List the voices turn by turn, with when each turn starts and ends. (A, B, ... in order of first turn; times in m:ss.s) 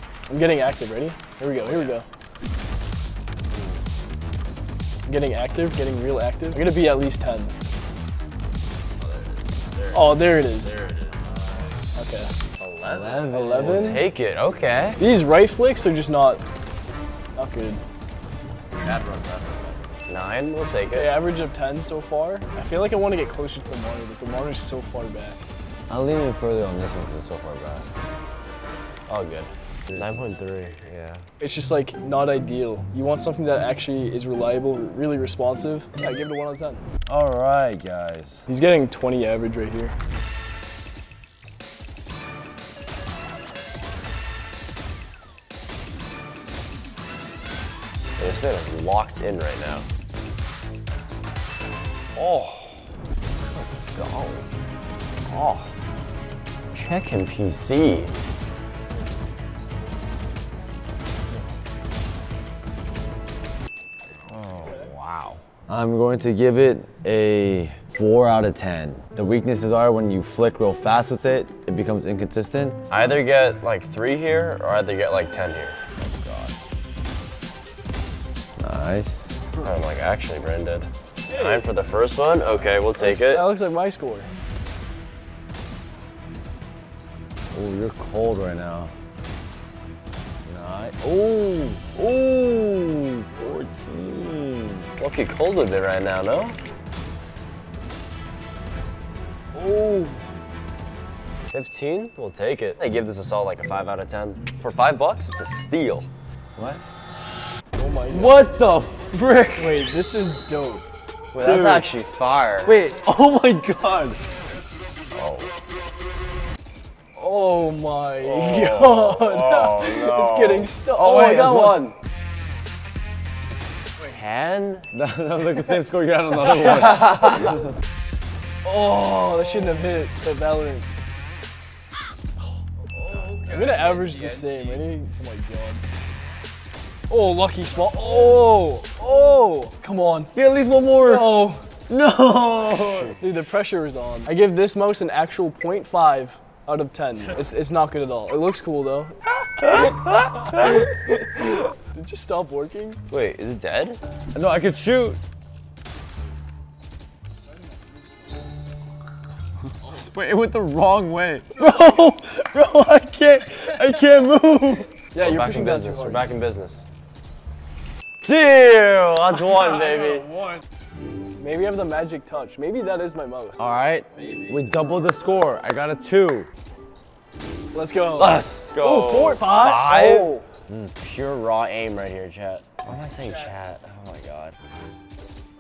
0:00.3-0:02.0 A
0:01.6-0:02.0 B
0:05.1-0:07.5 A
0:09.0-0:11.8 B
0:09.9-0:10.8 A
0:12.0-0:12.3 A
0:12.6-0:15.0 B
0:12.8-0:14.0 C
0:13.3-0:14.0 A
0:15.0-0:16.4 A
0:17.4-0:17.8 A
0:18.7-0:21.2 B
0:20.9-0:25.4 A
0:25.9-0:27.9 C
0:29.1-0:31.2 B
0:31.4-0:36.8 A
0:37.1-0:38.4 C
0:38.5-0:39.9 A
0:48.2-0:49.9 B
0:52.1-0:52.9 B
0:53.4-0:54.5 B
0:55.3-0:55.7 B
0:56.7-0:58.1 B
1:04.3-1:05.4 B
1:05.7-1:12.9 C
1:12.9-1:15.8 B
1:16.0-1:16.5 C
1:18.6-1:19.4 C
1:19.6-1:23.4 B
1:21.3-1:21.8 A
1:23.0-1:24.3 A
1:27.5-1:28.9 C
1:30.4-1:34.9 C
1:35.0-1:36.6 B
1:39.6-1:40.2 C
1:41.5-1:46.1 B
1:46.6-1:46.8 C
1:47.8-1:48.5 A
1:48.1-1:49.9 C
1:49.6-1:50.9 A
1:51.3-1:52.8 B
1:51.4-1:51.9 C
1:52.6-1:54.2 C
1:55.1-1:55.5 B
1:57.2-2:01.9 A
1:58.2-2:01.9 B
2:04.0-2:04.9 B
2:04.9-2:07.7 C
2:06.6-2:07.4 B
2:08.6-2:10.9 A
2:13.0-2:14.5 C
2:13.1-2:14.7 B
2:13.5-2:15.8 A
2:17.1-2:20.3 A
2:20.3-2:23.2 C
2:21.0-2:21.7 A
2:22.7-2:23.1 B
2:23.2-2:29.1 A
2:29.8-2:30.4 C
2:30.3-2:33.0 A
2:33.1-2:34.0 B
2:34.3-2:35.2 C
2:39.8-2:44.9 C
2:45.1-2:46.3 A
2:45.2-2:46.8 B
2:48.2-2:50.6 B
2:51.4-2:53.7 A
2:53.6-2:56.5 C
2:54.2-2:54.6 B
2:57.7-3:00.4 A
2:58.2-2:58.7 C
2:58.2-3:04.6 B